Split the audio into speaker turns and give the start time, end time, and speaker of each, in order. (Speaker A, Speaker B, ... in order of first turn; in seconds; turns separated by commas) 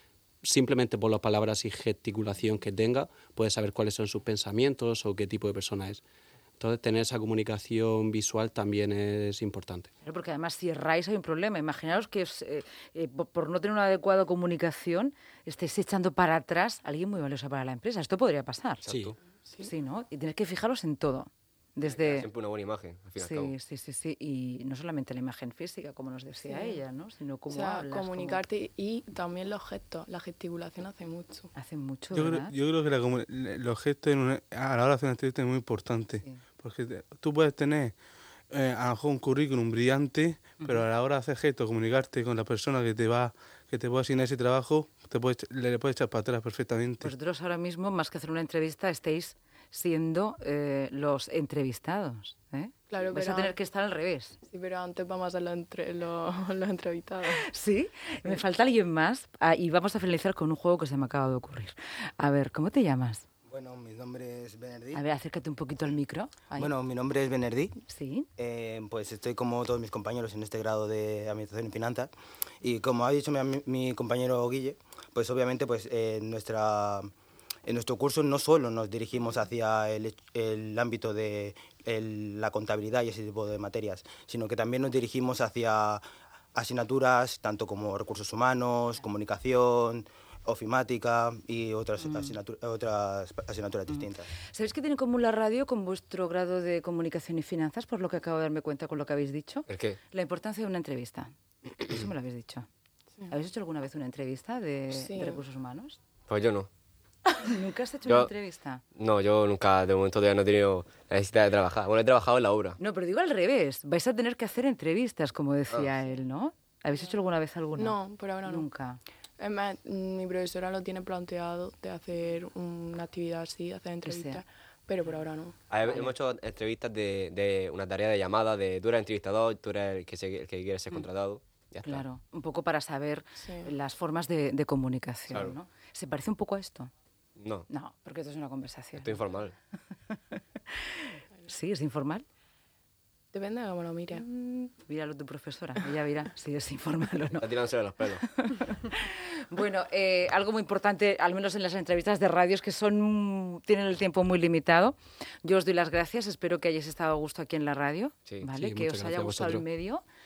Speaker A: 0.4-6.0, Speaker A: 6.6-9.9, Speaker B: 10.0-18.8, Speaker C: 18.8-19.1, Speaker A: 18.9-19.1, Speaker B: 19.6-22.3, Speaker C: 21.9-23.5, Speaker B: 23.2-28.4, Speaker D: 26.4-26.8, Speaker D: 27.5-31.5, Speaker B: 31.6-32.5, Speaker E: 32.1-38.0, Speaker E: 38.5-47.1, Speaker B: 47.0-54.4, Speaker D: 52.9-53.6, Speaker D: 54.5-57.5, Speaker B: 57.4-63.2, Speaker F: 63.5-65.0, Speaker B: 64.9-66.7, Speaker F: 66.6-67.8, Speaker B: 67.9-68.3, Speaker F: 68.4-77.1, Speaker F: 77.7-94.3, Speaker B: 92.0-92.3, Speaker B: 93.9-102.7, Speaker C: 99.7-100.0, Speaker B: 103.3-106.0, Speaker D: 104.9-105.4, Speaker C: 106.3-106.7, Speaker B: 107.2-108.8, Speaker C: 108.1-108.3, Speaker C: 108.9-112.8, Speaker B: 112.8-119.0, Speaker D: 117.8-118.7, Speaker D: 119.4-125.6, Speaker B: 124.0-124.4, Speaker C: 125.7-132.0, Speaker B: 125.8-126.1, Speaker B: 131.8-136.9, Speaker D: 133.4-133.8, Speaker C: 135.3-135.6, Speaker C: 137.4-137.7, Speaker B: 137.7-139.2, Speaker C: 139.0-139.6, Speaker B: 140.1-142.2, Speaker D: 143.3-144.2, Speaker B: 144.1-147.5, Speaker C: 147.4-148.3, Speaker B: 148.4-160.0, Speaker A: 158.5-159.6